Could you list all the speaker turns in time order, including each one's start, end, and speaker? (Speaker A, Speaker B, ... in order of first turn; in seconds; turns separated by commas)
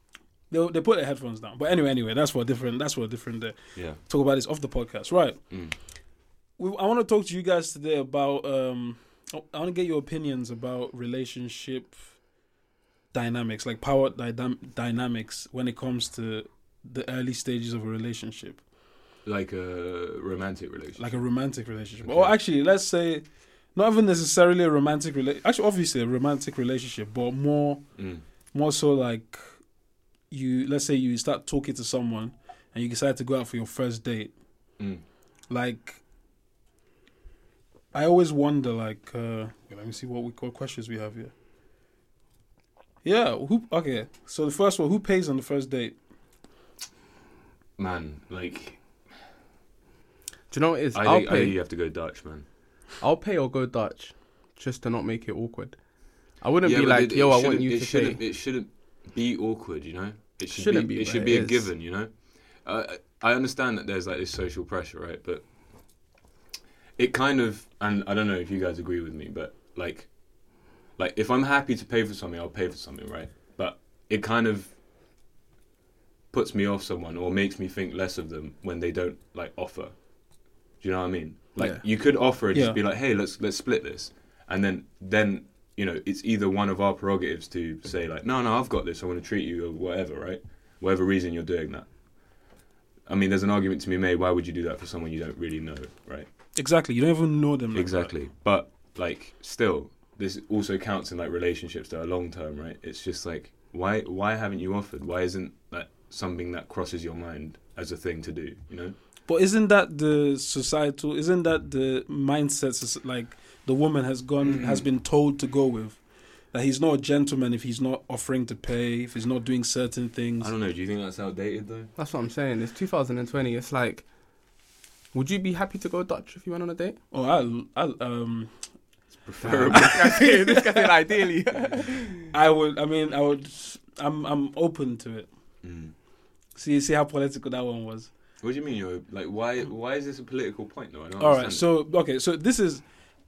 Speaker A: 0.5-5.4, Speaker B: 5.5-5.7, Speaker A: 6.6-12.0, Speaker A: 13.1-18.6, Speaker B: 19.2-21.2, Speaker A: 21.0-23.2, Speaker B: 22.0-22.3, Speaker A: 23.7-27.8, Speaker B: 28.0-28.2, Speaker A: 28.5-29.4, Speaker A: 30.3-34.3, Speaker A: 35.5-36.0, Speaker A: 37.9-41.3, Speaker A: 43.0-46.0, Speaker B: 47.8-48.8, Speaker C: 50.5-51.6, Speaker B: 50.9-52.4, Speaker C: 53.0-55.8, Speaker C: 56.4-58.2, Speaker B: 56.6-62.1, Speaker C: 60.5-61.7, Speaker B: 62.6-65.4, Speaker B: 67.0-70.1, Speaker B: 71.0-74.7, Speaker B: 76.3-79.9, Speaker B: 80.8-91.9, Speaker C: 81.6-81.8, Speaker A: 82.5-82.8, Speaker B: 93.1-96.3, Speaker A: 96.5-98.1, Speaker B: 97.7-109.0, Speaker A: 109.3-116.0, Speaker B: 114.5-114.8, Speaker A: 116.5-120.5, Speaker B: 120.4-121.9, Speaker C: 122.0-124.0, Speaker C: 125.1-127.0, Speaker A: 127.1-128.5, Speaker B: 129.2-130.3, Speaker C: 129.4-132.3, Speaker A: 129.7-130.3, Speaker A: 132.3-135.3, Speaker B: 135.6-135.9, Speaker A: 136.6-138.1, Speaker B: 138.4-141.7, Speaker A: 141.2-142.8